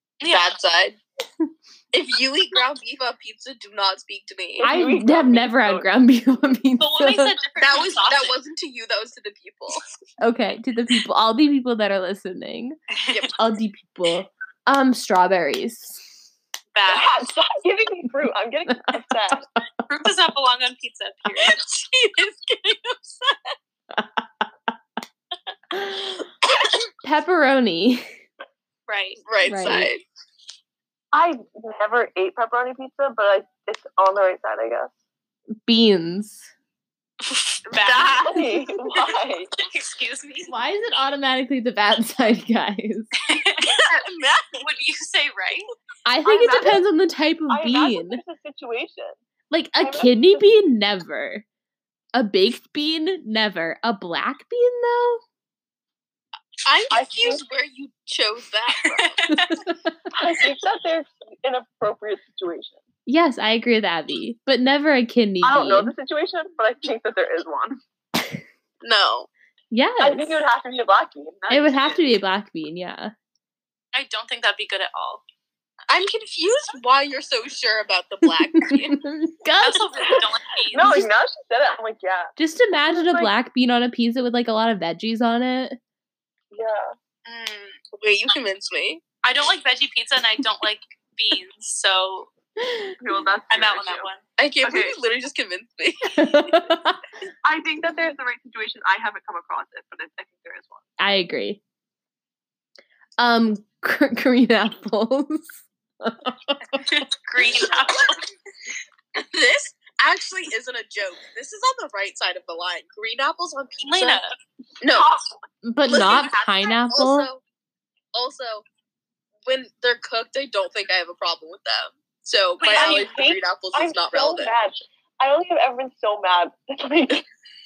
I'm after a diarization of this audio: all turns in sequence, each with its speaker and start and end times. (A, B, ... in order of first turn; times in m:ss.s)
0:00.2-0:00.5 A
0:00.2-0:01.0 B
0:01.9-0:04.7 B
0:04.6-0:05.9 C
0:04.6-0:07.4 D
0:06.8-0:08.4 A
0:07.6-0:09.8 B
0:10.2-0:16.2 D
0:12.9-0:13.3 A
0:13.1-0:13.3 B
0:16.7-0:17.1 A
0:16.9-0:19.5 C
0:18.9-0:19.6 D
0:19.9-0:21.6 A
0:21.4-0:23.6 B
0:23.9-0:24.4 D
0:25.7-0:26.3 D
0:27.0-0:28.1 D
0:28.9-0:29.2 A
0:29.2-0:30.0 B
0:29.4-0:29.9 D
0:31.1-0:34.9 C
0:35.6-0:36.5 D
0:37.7-0:38.4 A
0:37.8-0:38.4 B
0:37.8-0:39.5 C
0:39.6-0:40.5 A
0:40.5-0:43.1 D
0:43.2-0:43.8 A
0:43.6-0:44.7 B
0:44.6-0:45.7 A
0:46.0-0:48.2 D
0:46.2-0:46.8 C
0:47.5-0:49.2 C
0:49.5-0:51.4 D
0:49.8-0:50.5 C
0:52.1-0:55.2 D
0:56.6-0:59.2 B
0:56.9-0:57.4 C
0:58.8-0:59.6 A
0:59.3-1:00.0 D
1:00.1-1:02.8 C
1:03.1-1:05.9 D
1:05.4-1:07.8 C
1:08.8-1:09.3 B
1:09.7-1:10.4 D
1:10.0-1:12.1 C
1:11.5-1:13.1 D
1:13.9-1:15.2 A
1:15.9-1:19.0 B
1:18.4-1:19.9 D
1:19.6-1:21.1 A
1:20.0-1:22.3 C
1:22.4-1:25.8 D
1:22.9-1:23.3 C
1:26.5-1:26.9 C
1:27.3-1:27.8 A
1:27.9-1:29.0 B
1:29.2-1:32.3 A
1:32.6-1:33.0 D
1:33.0-1:34.1 C
1:33.5-1:34.2 A
1:34.4-1:36.4 B
1:34.6-1:35.0 C
1:36.1-1:37.0 D
1:37.4-1:40.8 C
1:41.0-1:41.6 D
1:43.2-1:47.0 D
1:46.9-1:48.2 A
1:47.4-1:48.2 B
1:49.2-1:54.2 B
1:53.8-1:54.3 A
1:54.8-1:55.1 B
1:54.8-1:55.4 C
1:55.6-1:57.3 D
1:55.9-1:57.4 B
1:58.1-1:58.6 B
1:59.5-2:04.5 B
2:02.6-2:03.2 A
2:02.6-2:07.3 C